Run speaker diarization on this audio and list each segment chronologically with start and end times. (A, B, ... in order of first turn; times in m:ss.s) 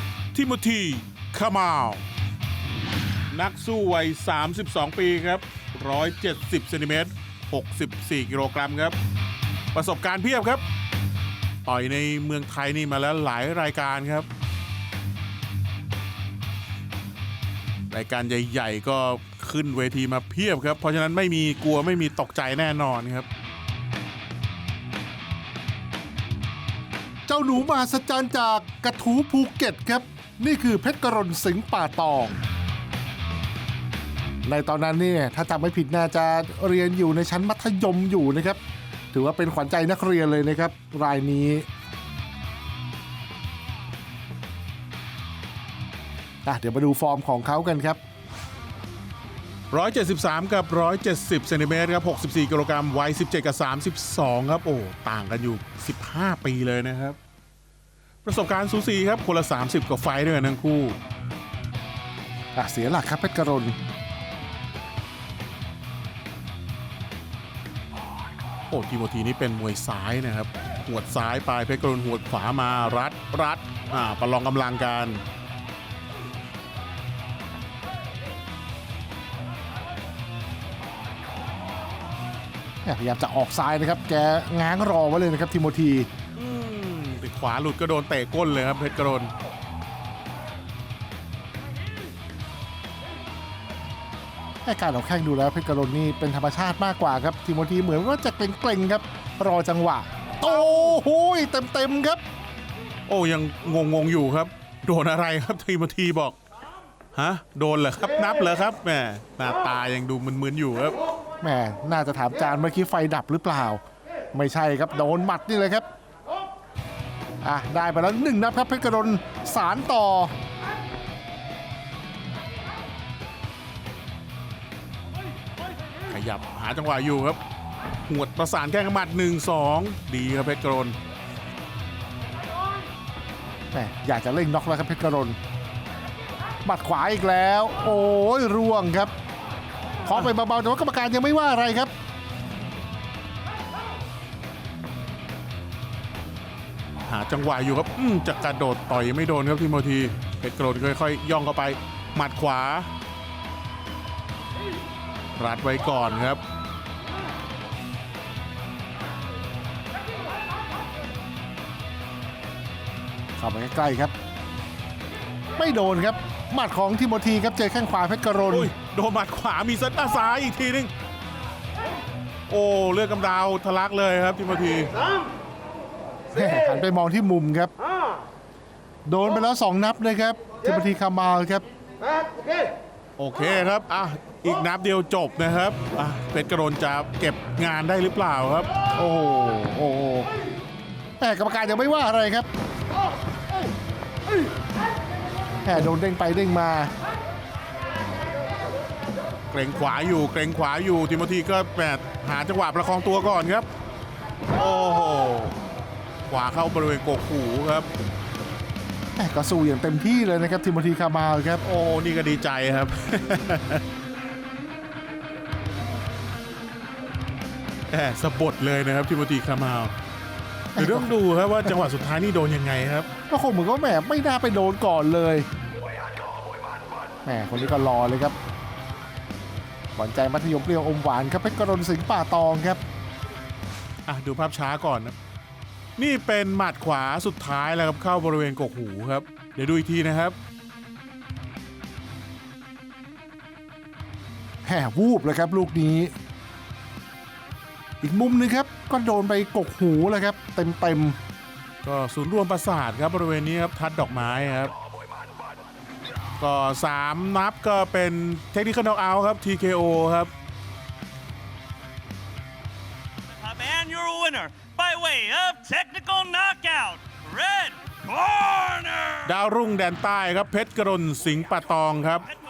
0:00.3-0:02.0 A
0:03.3-0:09.0 A
0:09.7-0:10.6 A
0:11.6-0:14.3 A
0:17.9-0:23.3 A
0:27.3-0:32.4 B
0:34.4-0:38.6 B
0:39.1-0:41.6 B
0:46.4-0:48.0 B
0:49.7-0:57.2 A
0:58.2-1:01.0 A
1:02.6-1:03.8 B
1:08.7-1:15.2 A
1:22.8-1:26.1 B
1:26.4-1:29.3 A
1:34.6-1:42.2 B
1:40.4-1:41.0 A
1:43.1-1:46.4 A
1:47.1-1:51.0 A
1:51.4-1:53.8 B
1:54.3-1:55.8 B
1:57.4-2:00.3 B
2:06.1-2:07.4 A
2:08.1-2:11.0 A
2:13.7-2:15.4 B
2:16.6-2:19.1 B
2:20.0-2:21.9 B
2:27.1-2:32.9 A
2:35.3-2:36.4 A
2:43.4-2:44.1 B
2:45.6-2:48.7 B
2:48.5-2:50.9 A
2:52.5-2:54.9 A
2:56.3-2:57.7 B
2:59.0-3:01.6 B
3:03.2-3:08.7 A
3:08.9-3:10.3 B
3:11.2-3:12.5 B
3:15.6-3:16.9 B
3:19.5-3:23.7 A
3:24.5-3:25.6 A
3:26.3-3:27.9 A
3:29.2-3:31.6 B
3:31.6-3:33.8 A
3:37.9-3:39.9 A
3:40.7-3:43.1 A
3:40.8-3:41.1 B
3:43.3-3:45.5 B
3:47.2-3:48.3 B
3:49.9-3:52.8 B
3:54.0-3:55.1 A
3:56.0-4:00.4 A
4:04.6-4:06.1 B
4:08.0-4:11.2 B
4:11.8-4:14.7 A
4:16.4-4:20.3 A
4:23.3-4:29.2 C
4:29.2-4:32.3 A